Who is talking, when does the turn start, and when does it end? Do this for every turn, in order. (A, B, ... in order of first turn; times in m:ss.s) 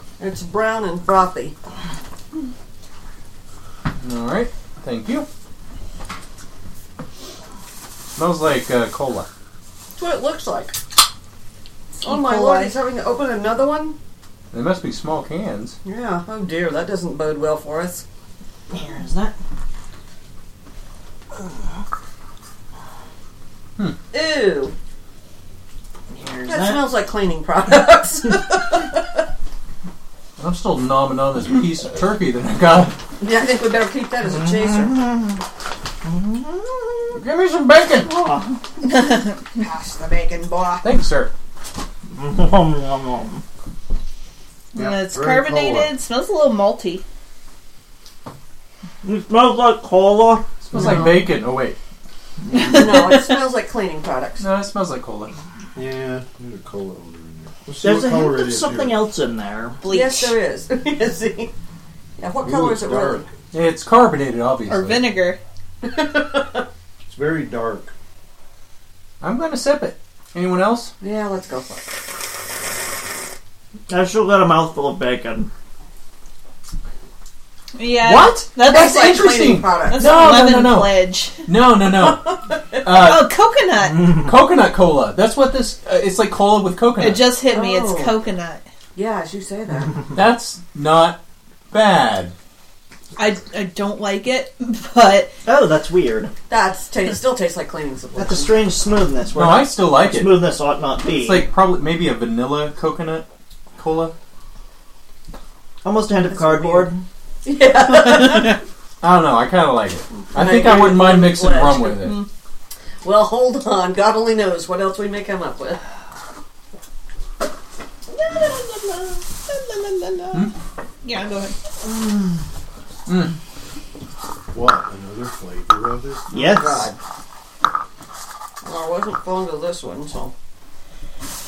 0:00.2-0:01.6 A
0:04.0-0:05.3 B
0:08.2-0:09.3 B
0:10.0-0:10.7 A
0:12.0-0:12.8 C
0:12.0-0:14.0 A
0:14.5-0:15.8 B
0:15.8-0:18.0 A
0:18.7-0:19.3 D
0:24.1-0:24.7 A
0:26.1-0:26.9 D
0:26.5-0:29.0 A
0:30.4-0:33.0 B
0:33.2-0:35.0 A
0:34.2-0:35.4 D
0:36.0-0:37.2 D
0:37.1-0:38.2 B
0:38.0-0:38.5 D
0:38.8-0:40.8 A
0:40.8-0:41.3 B
0:42.1-0:43.4 D
0:44.7-0:47.0 C
0:44.7-0:45.9 E
0:49.0-0:51.2 D
0:50.6-0:51.8 B
0:52.4-0:53.1 D
0:52.5-0:53.3 C
0:52.6-0:54.4 A
0:54.4-0:55.3 B
0:55.8-0:59.0 E
0:57.8-0:59.8 D
0:59.8-1:00.4 C
0:59.8-1:01.5 A
1:02.2-1:03.2 A
1:02.4-1:03.2 E
1:03.5-1:05.1 B
1:04.7-1:05.4 C
1:05.8-1:06.6 A
1:07.1-1:07.9 E
1:09.2-1:10.9 B
1:11.0-1:11.8 A
1:13.9-1:15.5 D
1:17.7-1:19.1 C
1:18.0-1:23.3 B
1:18.6-1:20.3 A
1:19.9-1:21.4 C
1:21.8-1:22.9 A
1:22.9-1:24.2 C
1:24.0-1:27.3 B
1:27.0-1:28.6 C
1:27.5-1:28.2 A
1:28.9-1:30.0 A
1:30.1-1:31.2 B
1:31.7-1:32.3 B
1:33.2-1:35.3 C
1:35.4-1:36.3 D
1:36.5-1:38.7 A
1:38.1-1:41.5 D
1:39.3-1:40.5 B
1:41.1-1:44.1 B
1:45.8-1:47.0 D
1:46.3-1:46.9 A
1:47.4-1:48.6 A
1:49.0-1:52.2 B
1:50.3-1:52.1 A
1:52.0-1:52.3 C
1:53.0-1:55.8 A
1:58.1-2:00.5 C
2:01.0-2:01.6 C
2:03.1-2:03.3 B
2:04.5-2:06.5 E
2:06.3-2:06.9 D
2:06.3-2:07.0 A
2:08.6-2:10.3 A